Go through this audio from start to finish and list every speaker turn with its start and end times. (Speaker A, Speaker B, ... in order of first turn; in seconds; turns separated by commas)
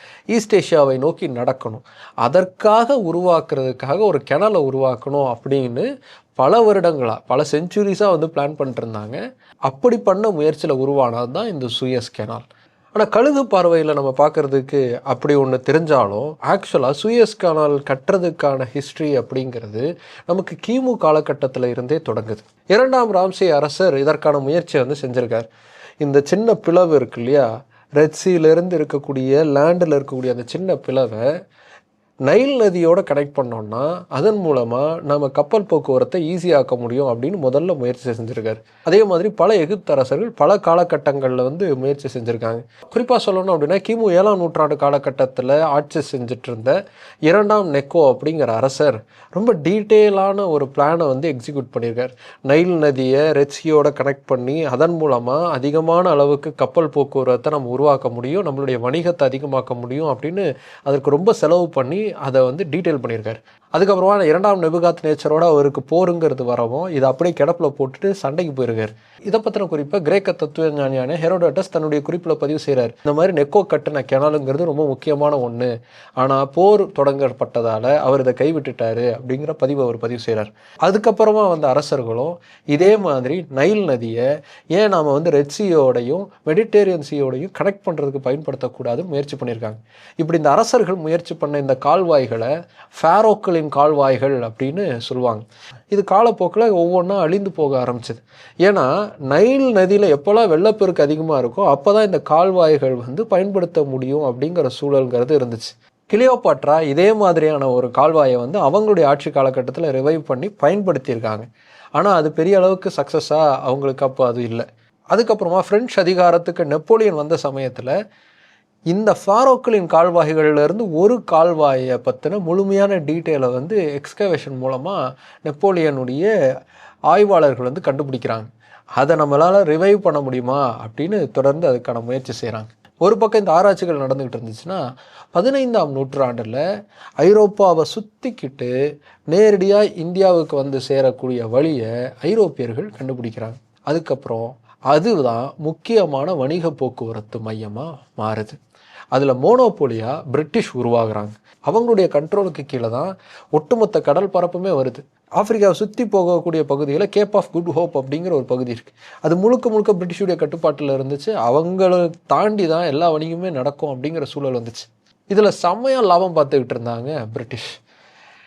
Speaker A: 0.3-5.8, Speaker A: 6.4-25.5, Speaker A: 26.0-31.2, Speaker A: 32.2-117.9, Speaker A: 118.9-126.3, Speaker A: 127.1-134.8, Speaker A: 135.3-136.6, Speaker A: 137.2-138.7, Speaker A: 139.3-148.6, Speaker A: 149.1-167.7